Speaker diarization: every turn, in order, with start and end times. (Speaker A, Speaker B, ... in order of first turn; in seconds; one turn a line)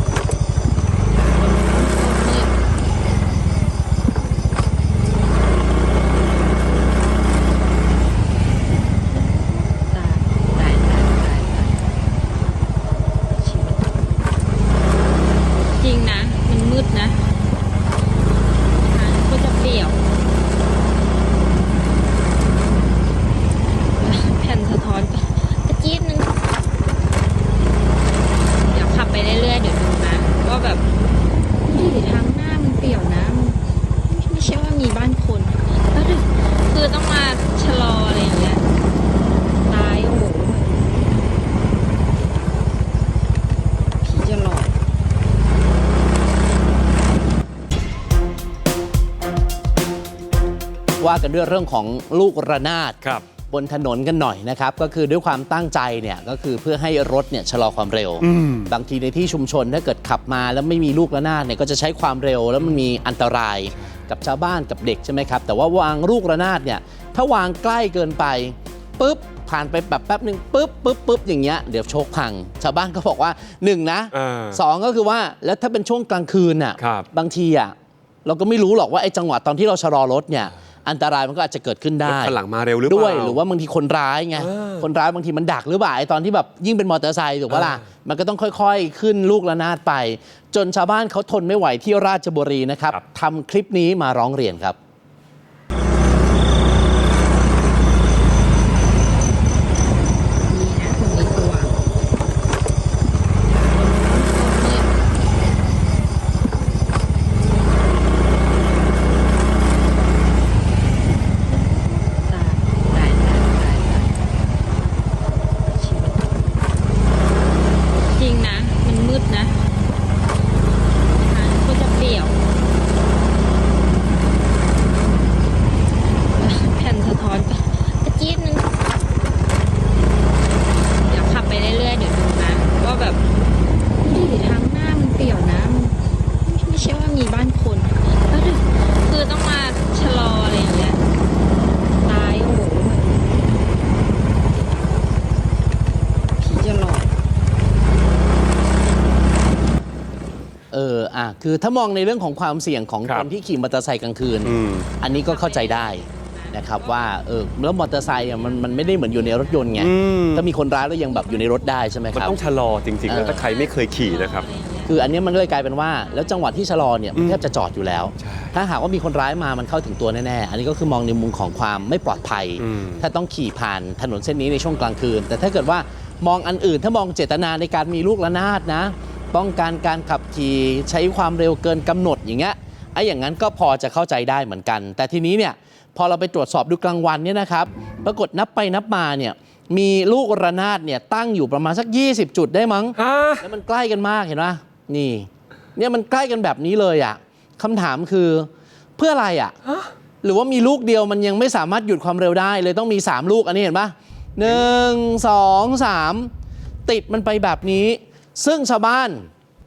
Speaker A: 1.1-2.5
Speaker A: 6.2-6.9
Speaker A: 8.9-12.0
Speaker A: 12.6-14.3
Speaker A: 15.7-17.3
Speaker A: 18.8-20.0
Speaker A: 23.9-26.3
Speaker A: 28.6-30.9
Speaker A: 31.6-38.6
Speaker A: 39.6-41.1
Speaker A: 44.0-44.8
Speaker B: 51.0-53.0
Speaker B: 53.5-77.7
Speaker C: 58.2-58.7
Speaker C: 63.8-64.0
Speaker C: 74.1-74.6
Speaker C: 76.8-77.1
Speaker B: 78.2-94.8
Speaker C: 82.0-83.4
Speaker C: 84.3-84.8
Speaker C: 87.5-87.8
Speaker A: 100.4-101.8
Speaker A: 103.5-104.9
Speaker A: 111.4-116.6
Speaker A: 118.1-119.6
Speaker A: 121.1-122.4
Speaker A: 126.3-128.6
Speaker A: 131.1-133.2
Speaker A: 134.0-141.0
Speaker A: 142.0-143.9
Speaker A: 144.5-145.4
Speaker A: 146.3-147.1
Speaker B: 150.7-162.3
Speaker C: 154.4-154.9
Speaker A: 155.0-157.2
Speaker A: 158.0-159.9
Speaker C: 159.8-160.5
Speaker A: 160.7-162.6
Speaker C: 162.1-164.5
Speaker B: 163.1-163.4
Speaker A: 163.1-165.1
Speaker B: 164.9-199.5
Speaker A: 165.9-166.7
Speaker C: 168.2-168.6
Speaker A: 171.5-172.5
Speaker C: 172.6-173.0
Speaker C: 192.9-193.4
Speaker B: 200.2-206.3
Speaker B: 206.8-209.3